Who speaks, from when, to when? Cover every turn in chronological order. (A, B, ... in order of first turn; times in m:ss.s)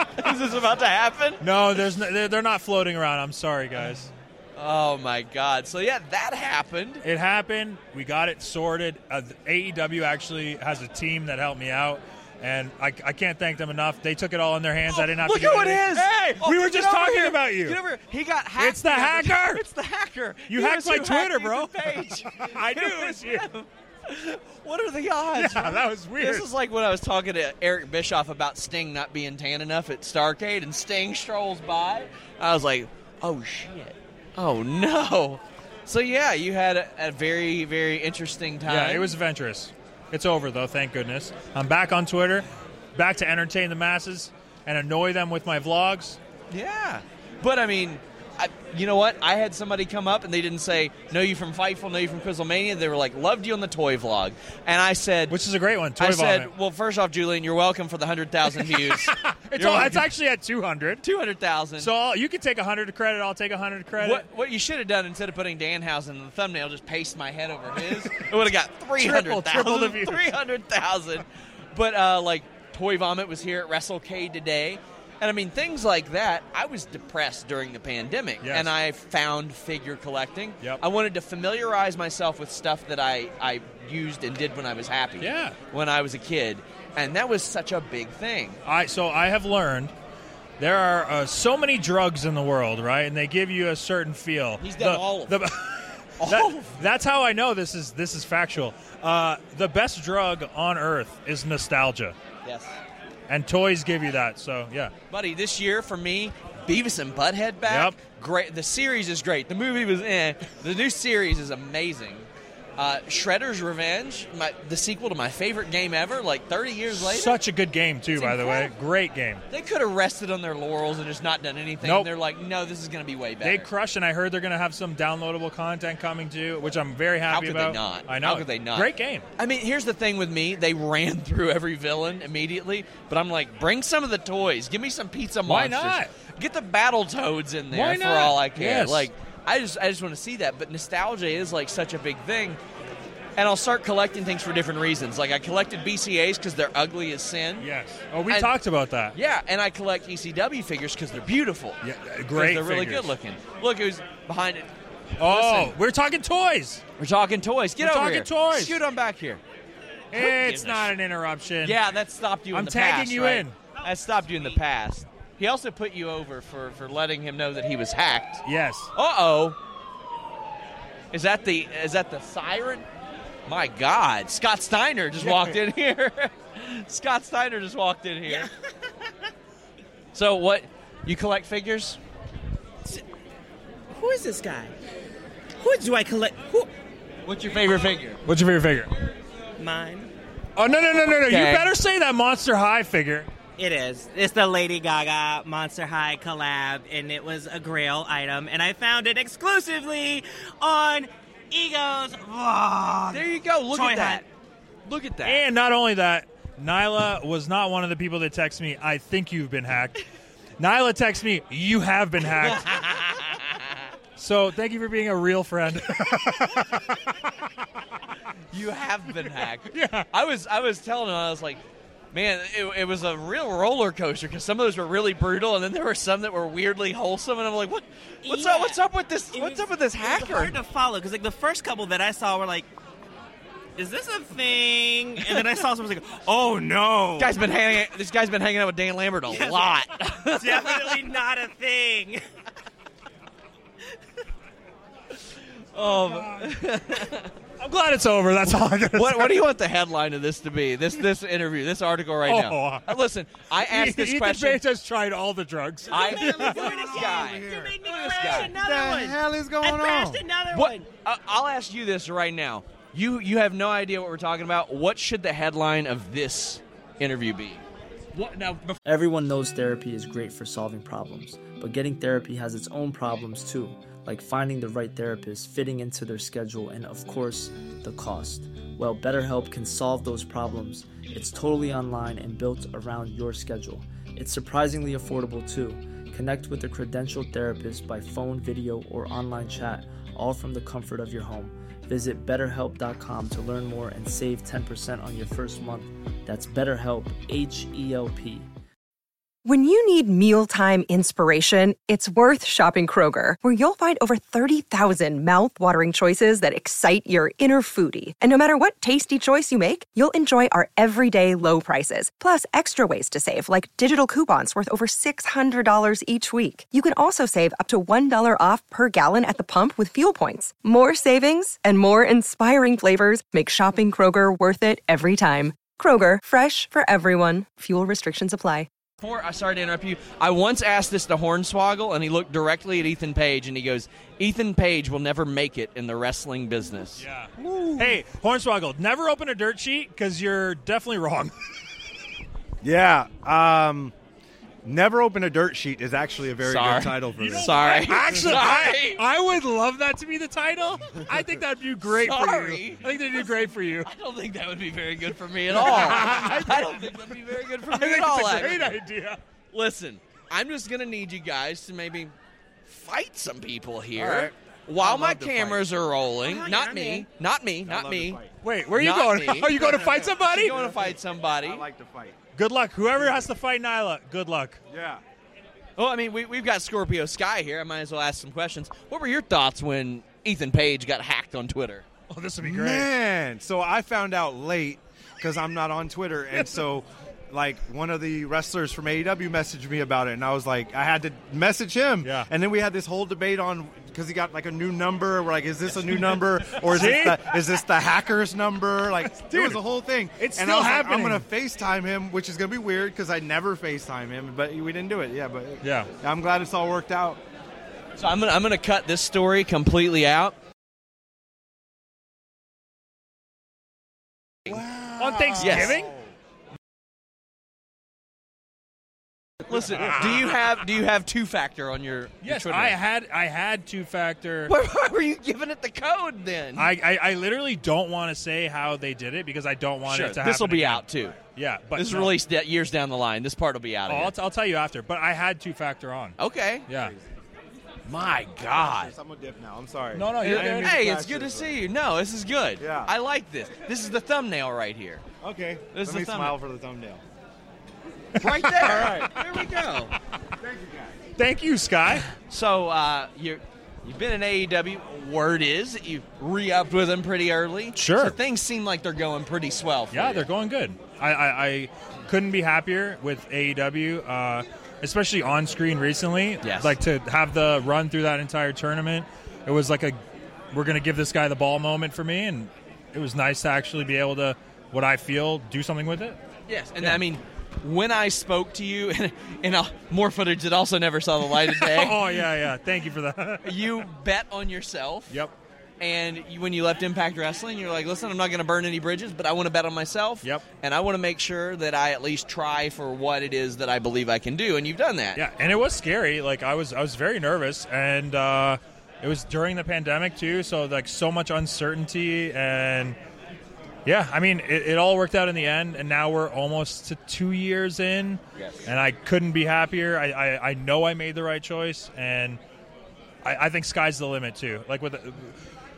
0:00.2-0:01.4 A
0:01.4-0:04.1 B
0:04.6-0:07.0 A
0:07.0-0:17.8 B
0:14.8-0:39.2 A
0:18.6-0:19.6 B
0:20.5-0:23.4 B
0:25.3-0:26.5 B
0:38.7-0:46.2 B
0:46.5-0:55.4 A
0:55.3-0:56.5 B
0:56.0-1:00.1 A
0:58.5-1:01.0 B
1:01.0-1:01.9 A
1:01.8-1:04.2 B
1:04.0-1:28.6 A
1:09.0-1:10.4 B
1:18.4-1:18.7 B
1:25.2-1:25.6 B
1:28.6-1:29.9 B
1:30.6-1:42.2 B
1:34.6-1:35.4 A
1:36.2-1:36.8 A
1:42.4-1:42.8 A
1:43.3-1:44.9 B
1:45.1-1:57.4 A
1:47.7-1:48.0 B
1:57.0-1:59.4 B
1:58.1-1:58.7 A
1:59.5-2:03.7 A
2:01.8-2:02.1 B
2:03.4-2:09.3 B
2:07.3-2:22.6 A
2:15.4-2:16.1 B
2:17.7-2:19.1 B
2:23.4-2:27.7 A
2:27.6-2:29.2 B
2:28.3-2:28.6 A
2:29.1-2:31.8 A
2:31.8-2:33.1 B
2:32.3-2:34.7 A
2:35.2-2:36.8 B
2:35.2-2:35.8 A
2:37.0-2:39.4 A
2:37.8-2:38.8 B
2:40.1-2:41.8 B
2:40.1-2:40.9 A
2:41.6-2:48.4 A
2:42.5-2:43.6 B
2:48.4-2:48.9 B
2:49.0-2:49.6 A
2:51.1-2:52.8 A
2:53.5-2:58.5 A
3:00.1-3:02.0 A
3:04.0-3:04.7 C
3:05.6-3:06.7 C
3:07.2-3:08.1 C
3:07.8-3:08.0 A
3:08.2-3:08.9 B
3:09.6-3:10.1 C
3:10.6-3:13.3 B
3:11.2-3:11.7 A
3:13.6-3:24.2 C
3:23.1-3:24.3 A
3:24.9-3:25.4 A
3:25.2-3:30.0 B
3:30.6-3:32.8 B
3:32.3-3:33.6 A
3:34.2-3:37.2 B
3:38.5-3:41.6 A
3:39.7-3:40.1 B
3:42.1-3:50.6 A
3:48.2-3:52.7 C
3:53.8-3:57.4 C
3:55.3-3:55.6 A
3:57.2-4:01.0 A
4:00.3-4:02.3 C
4:05.7-4:07.3 A
4:05.8-4:06.5 B
4:07.6-4:09.4 B
4:08.5-4:14.6 A
4:12.2-4:13.0 B
4:13.6-4:16.8 B
4:15.9-4:18.6 A
4:15.9-4:20.9 C
4:16.7-4:20.3 D
4:20.5-4:27.6 A
4:28.2-4:28.8 A
4:28.8-4:58.5 E
4:59.4-5:28.7 F
5:29.0-5:37.0 A
5:37.0-5:41.3 B
5:37.4-5:38.0 D
5:42.6-5:43.9 D
5:44.6-5:47.5 D
5:46.4-5:49.0 A
5:47.2-5:53.9 B
5:51.8-5:53.0 A
5:53.8-5:58.8 A
5:55.5-5:59.2 B
5:59.5-6:02.2 A
6:02.7-6:09.6 A
6:04.0-6:05.6 B
6:06.2-6:07.1 C
6:07.6-6:08.3 D
6:08.4-6:10.6 B
6:09.6-6:12.2 D
6:10.2-6:11.6 A
6:12.4-6:14.6 B
6:14.7-6:15.0 D
6:15.8-6:21.9 A
6:22.1-6:22.9 B
6:22.4-6:47.2 D
6:26.3-6:26.7 B
6:32.0-6:32.3 B
6:36.0-6:37.4 B
6:39.0-6:39.6 B
6:40.2-6:41.3 B
6:45.6-6:45.9 B
6:48.0-6:50.4 A
6:54.5-6:56.1 D
6:55.0-6:55.9 B
6:55.4-6:55.8 A
6:59.5-7:02.8 A
7:02.2-7:04.5 B
7:04.5-7:06.7 A
7:06.6-7:12.2 B
7:09.8-7:11.2 A
7:11.8-7:14.1 A
7:13.9-7:16.9 B
7:16.2-7:16.7 A
7:16.7-7:17.0 D
7:17.8-7:18.9 A
7:18.5-7:21.6 D
7:19.9-7:20.8 B
7:20.2-7:25.0 A
7:22.6-7:22.9 D
7:25.2-7:27.0 D
7:25.7-7:26.4 A
7:28.2-7:29.9 A
7:28.6-7:29.2 D
7:30.4-7:30.9 D
7:31.2-7:32.1 B
7:32.2-7:40.3 A
7:37.8-7:38.2 B
7:39.9-7:50.0 B
7:46.4-7:46.8 A
7:50.5-7:56.2 B
7:56.5-8:02.2 A
8:01.4-8:03.7 B
8:03.4-8:05.2 A
8:05.8-8:15.2 A
8:15.2-8:23.0 B
8:23.9-8:32.4 B
8:28.4-8:28.7 A
8:33.2-8:35.3 B